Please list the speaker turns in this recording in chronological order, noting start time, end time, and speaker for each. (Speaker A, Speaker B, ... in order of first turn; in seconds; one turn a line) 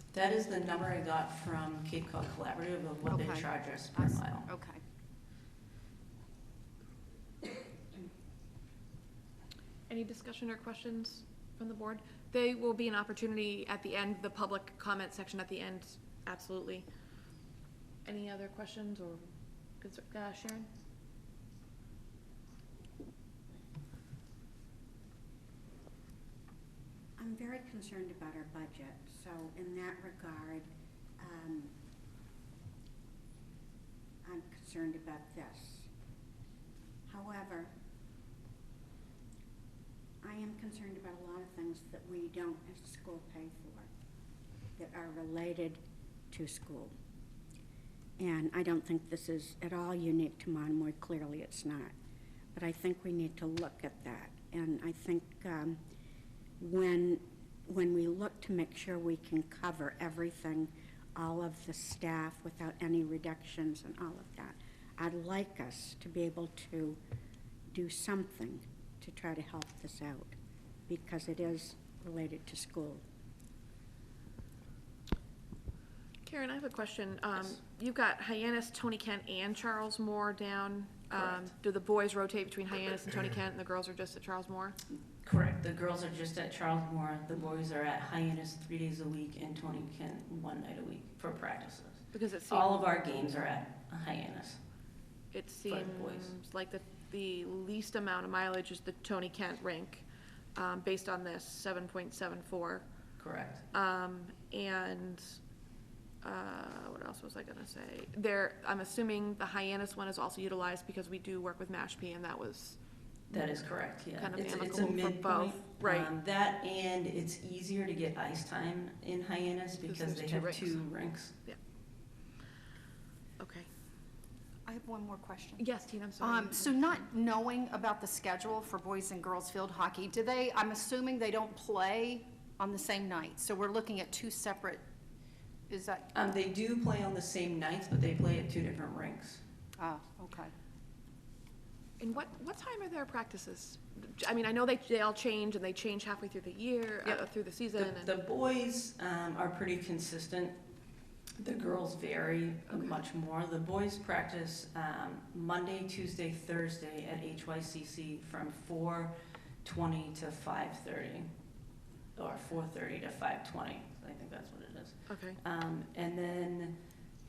Speaker A: 0.1-4.5
Speaker B: 3.1-4.8
Speaker C: 9.9-16.9
Speaker C: 18.0-19.3
Speaker C: 19.8-20.6
Speaker D: 27.2-30.7
Speaker D: 31.2-31.7
Speaker D: 34.2-35.9
Speaker D: 37.1-37.7
Speaker D: 40.2-43.9
Speaker D: 44.8-45.8
Speaker D: 46.3-46.9
Speaker D: 48.2-51.9
Speaker D: 52.5-55.8
Speaker D: 56.6-67.0
Speaker D: 67.7-70.3
Speaker D: 70.9-73.0
Speaker C: 76.2-84.8
Speaker A: 81.2-81.5
Speaker A: 85.1-94.6
Speaker C: 92.1-93.0
Speaker C: 95.3-102.9
Speaker A: 95.7-96.3
Speaker A: 103.2-103.7
Speaker C: 103.7-105.3
Speaker C: 106.2-112.8
Speaker A: 113.3-121.3
Speaker C: 114.2-116.1
Speaker C: 119.9-120.8
Speaker C: 123.4-123.7
Speaker B: 124.7-125.6
Speaker C: 125.6-127.0
Speaker B: 126.2-134.8
Speaker B: 135.7-136.1
Speaker A: 136.1-139.4
Speaker B: 139.8-140.5
Speaker C: 142.0-148.1
Speaker A: 147.8-150.6
Speaker A: 151.4-159.1
Speaker C: 152.7-153.0
Speaker A: 159.6-161.3
Speaker A: 162.2-166.8
Speaker C: 165.1-165.4